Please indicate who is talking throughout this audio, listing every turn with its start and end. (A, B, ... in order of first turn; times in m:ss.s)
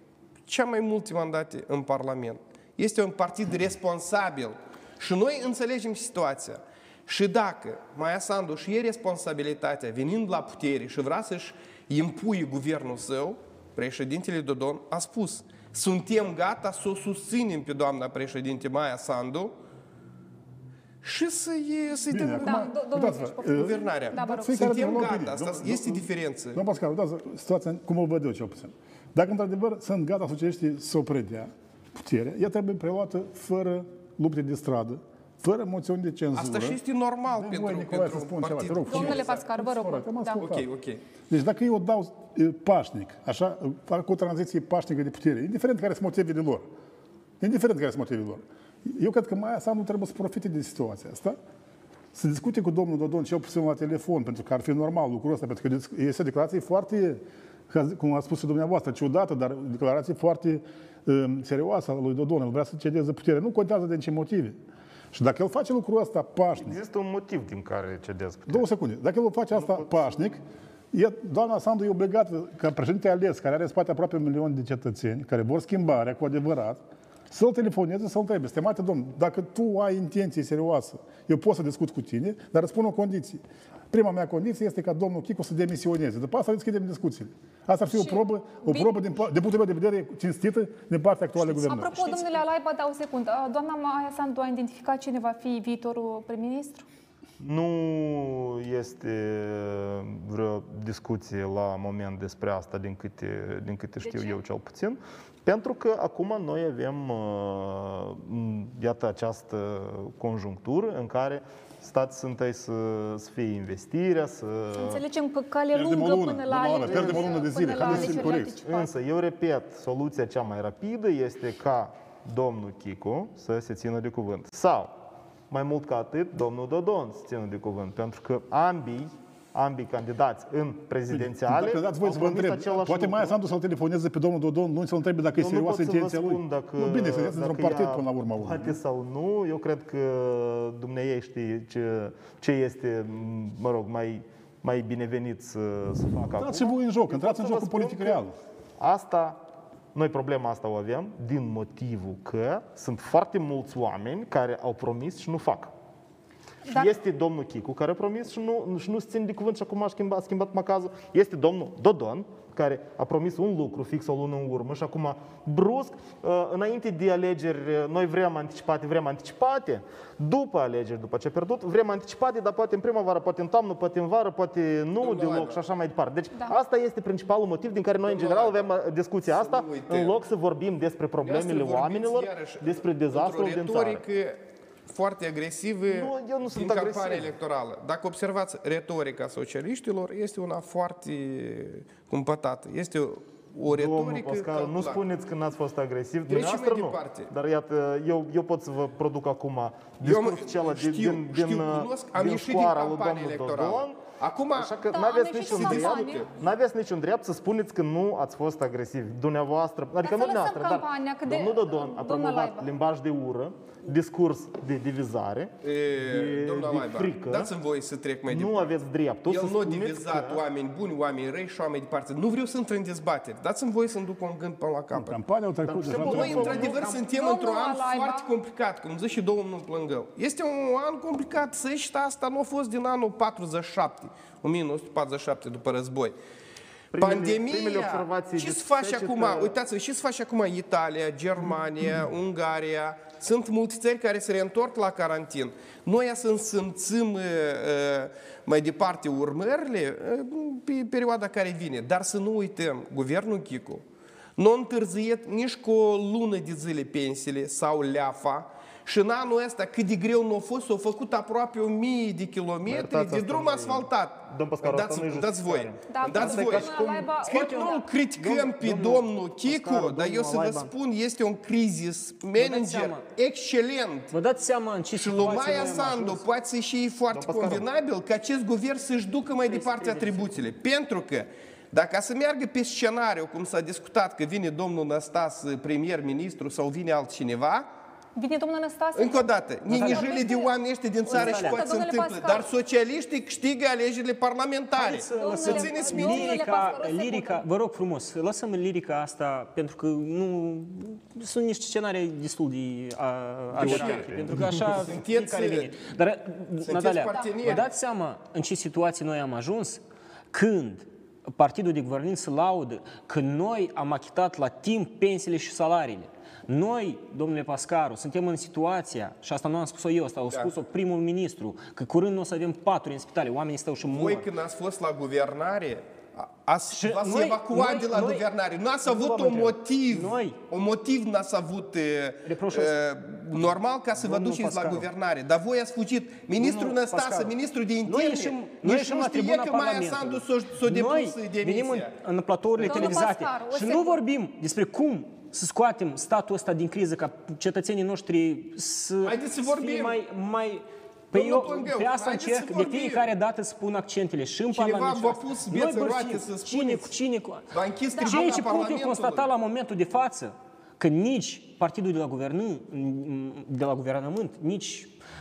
0:00.5-0:19.5 A
0:21.0-0:22.7 A
0:22.1-0:36.8 B
0:22.4-0:24.6 C
0:23.5-0:26.6 A
0:36.3-0:39.3 A
0:37.3-0:40.6 B
0:38.8-0:40.4 C
0:40.4-0:41.0 A
0:41.3-0:46.7 B
0:47.4-0:51.4 B
0:52.1-1:04.6 B
1:05.1-1:06.8 B
1:06.6-1:08.6 D
1:08.5-1:32.0 B
1:09.5-1:10.1 D
1:27.9-1:29.1 C
1:31.4-1:32.3 E
1:31.6-1:36.8 C
1:37.4-1:55.0 D
1:44.0-1:44.4 C
1:54.7-1:58.9 C
1:55.7-1:58.6 B
1:56.9-2:05.0 D
2:05.5-2:13.4 D
2:11.1-2:18.8 B
2:15.4-2:28.2 D
2:26.4-2:28.3 B
2:28.8-2:29.4 D
2:29.9-2:35.7 D
2:36.7-3:04.0 D
2:55.0-2:55.6 A
2:56.3-2:56.6 C
2:58.0-2:58.7 A
2:59.3-3:00.2 A
3:01.2-3:15.0 A
3:05.9-3:07.3 D
3:13.6-3:24.0 D
3:16.3-3:17.3 A
3:20.0-3:24.8 A
3:24.5-3:37.5 D
3:24.9-3:26.2 C
3:25.4-3:26.3 A
3:30.0-3:32.7 C
3:35.6-3:38.6 A
3:38.3-3:40.4 D
3:39.2-3:45.2 A
3:44.9-3:46.7 B
3:45.7-3:46.9 D
3:46.0-3:56.2 A
3:46.4-3:48.3 C
3:56.9-3:59.6 D
3:57.0-4:13.8 A
4:14.4-4:34.1 A
4:22.6-4:27.0 D
4:25.9-4:27.8 C
4:26.3-4:26.6 E
4:27.3-4:27.6 E
4:28.2-4:30.7 E
4:32.4-4:33.0 E
4:34.1-4:36.2 E
4:35.0-4:47.7 A
4:37.1-4:37.6 D
4:39.5-4:40.3 E
4:48.2-4:50.5 C
4:48.9-4:56.7 A
4:49.7-4:50.2 E
4:51.0-4:52.5 C
4:51.1-4:51.6 E
4:54.8-5:24.3 E
4:54.9-4:57.4 C
5:03.6-5:04.4 D
5:03.6-5:05.8 A
5:06.6-5:07.7 A
5:23.9-5:41.9 A
5:26.7-5:28.2 E
5:28.8-5:30.4 E
5:32.2-5:32.8 E
5:34.0-5:34.9 E
5:36.4-6:04.9 E
5:42.6-5:43.0 A
5:42.6-5:44.0 C
5:49.0-5:50.0 A
5:51.1-5:53.0 A
5:54.5-5:56.9 A
5:57.5-5:59.3 A